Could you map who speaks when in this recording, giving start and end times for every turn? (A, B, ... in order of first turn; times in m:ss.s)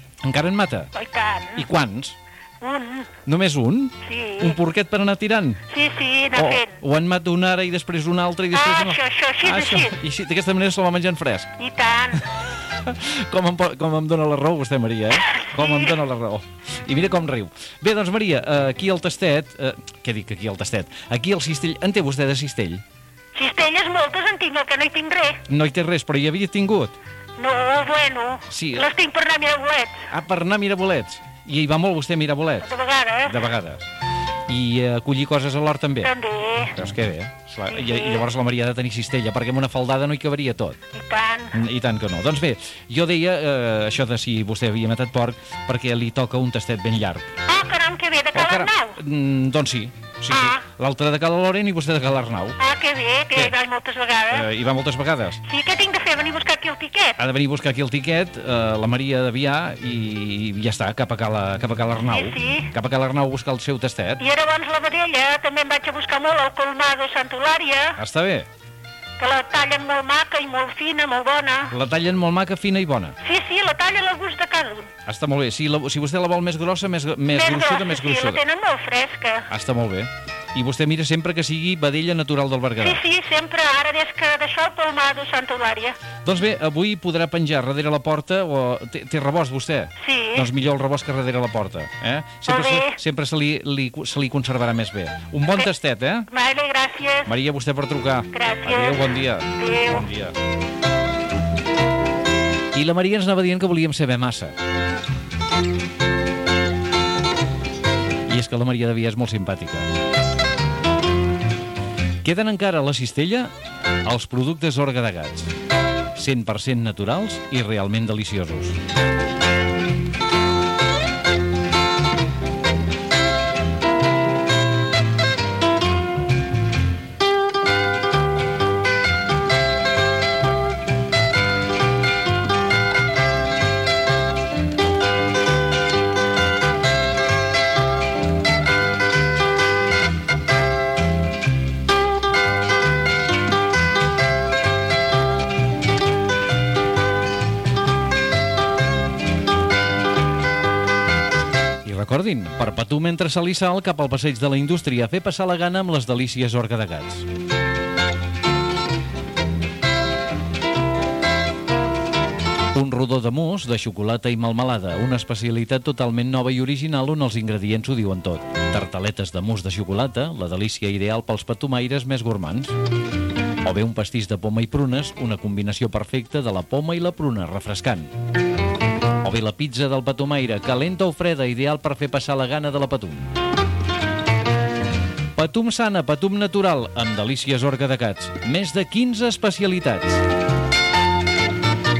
0:00.2-0:00.9 A
0:00.9-0:01.6 B
0:01.6-0:02.2 A
0:02.6-0:03.1 B
0:03.2-0:05.7 A
0:04.0-0:04.6 B
0:05.7-0:06.7 B
0:06.3-0:11.6 A
0:08.5-0:10.0 B
0:11.6-0:12.2 B
0:12.7-0:22.8 A
0:15.4-0:15.9 B
0:23.3-0:25.4 B
0:25.5-0:26.9 A
0:27.4-0:30.0 B
0:28.5-0:28.9 A
0:30.1-0:32.7 A
0:32.6-0:33.3 B
0:33.2-0:33.8 A
0:34.5-0:36.1 A
0:36.0-0:36.8 B
0:36.8-0:40.8 A
0:37.7-0:38.2 B
0:40.9-0:41.5 B
0:41.5-0:47.3 A
0:47.4-0:49.0 B
0:48.3-0:52.6 A
0:50.3-0:50.6 B
0:52.6-0:54.4 B
0:54.3-0:55.4 A
0:55.5-0:57.2 B
0:57.2-1:04.2 A
1:02.1-1:02.7 B
1:04.2-1:08.0 B
1:08.0-1:08.5 A
1:09.2-1:11.7 B
1:11.7-1:13.2 A
1:13.2-1:14.9 B
1:15.0-1:18.4 A
1:17.3-1:19.5 B
1:19.5-1:23.0 A
1:22.8-1:26.0 B
1:26.2-1:36.3 A
1:30.0-1:30.5 B
1:32.4-1:33.0 B
1:36.3-1:37.3 B
1:37.2-1:40.4 A
1:38.3-1:40.1 B
1:42.7-1:44.5 A
1:48.3-1:49.9 A
1:52.2-1:53.5 A
1:54.1-1:55.5 A
1:56.2-1:58.8 A
2:31.8-2:37.2 A
2:42.7-2:52.7 A
2:53.6-2:58.1 A
2:59.2-3:03.3 A
3:05.4-3:10.2 A